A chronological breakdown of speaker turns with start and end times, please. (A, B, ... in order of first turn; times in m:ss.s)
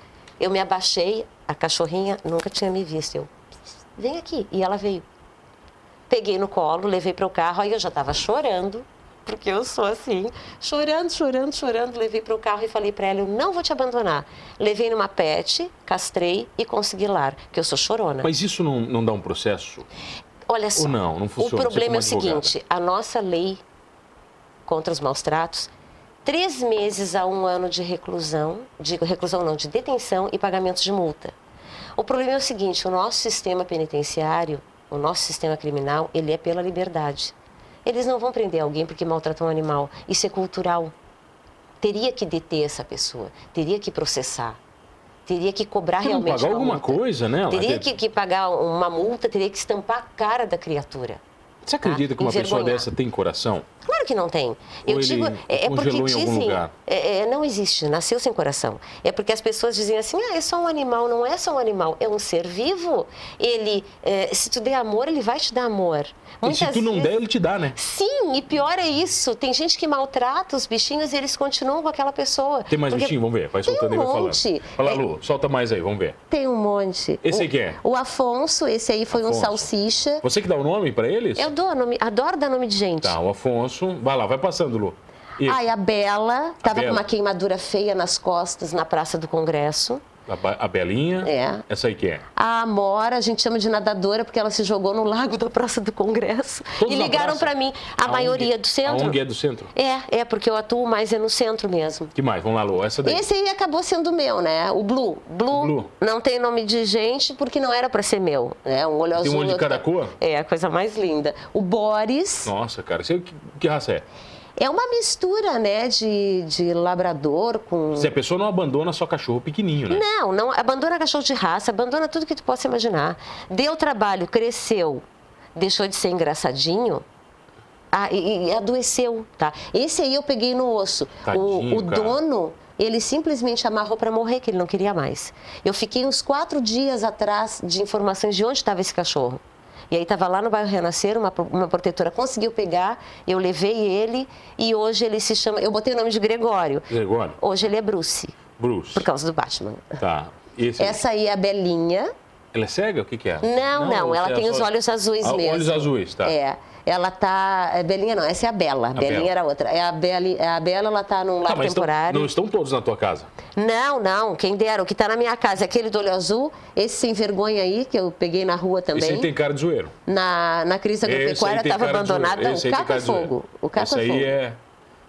0:00.4-0:03.3 A
0:04.0-0:05.0 A
0:06.1-0:18.3 A
0:18.2-0:19.9 B
0:20.5-0:23.6 A
0:20.8-0:22.5 B
0:24.7-0:25.7 A
0:26.2-0:31.3 A
0:32.0-0:37.3 A
0:37.8-0:40.9 A
0:41.8-0:44.6 A
0:45.2-0:51.2 A
0:46.0-0:47.9 B
0:51.6-0:53.6 B
0:51.8-0:52.9 A
0:53.8-1:07.1 A
0:54.9-0:56.7 B
1:06.4-1:07.8 B
1:07.7-1:15.0 A
1:12.7-1:16.2 B
1:16.3-1:20.2 A
1:17.2-1:17.8 B
1:19.1-1:19.7 B
1:20.2-1:21.5 B
1:21.4-1:23.2 A
1:23.0-1:25.6 B
1:25.4-1:30.0 A
1:26.6-1:27.0 B
1:30.3-1:32.2 B
1:31.2-1:31.6 A
1:32.3-1:39.2 A
1:36.8-1:37.5 B
1:38.0-1:39.7 B
1:39.7-1:42.1 A
1:42.1-1:43.2 B
1:43.0-1:52.5 A
1:45.5-1:45.9 B
1:49.2-1:50.1 B
1:52.4-1:54.0 B
1:54.6-1:58.1 A
1:57.9-2:00.0 B
1:59.9-2:05.0 A
2:05.5-2:07.0 A
2:07.9-2:28.4 A
2:11.2-2:12.2 B
2:26.9-2:27.4 B
2:28.6-2:29.0 B
2:28.9-2:30.0 A
2:30.0-2:31.0 B
2:30.8-2:32.1 A
2:32.5-2:34.7 B
2:33.4-2:42.3 A
2:35.2-2:36.3 B
2:39.0-2:39.3 B
2:41.4-2:43.3 B
2:43.6-2:49.3 A
2:48.9-2:49.9 B
2:50.0-2:54.3 A
2:51.0-2:54.6 B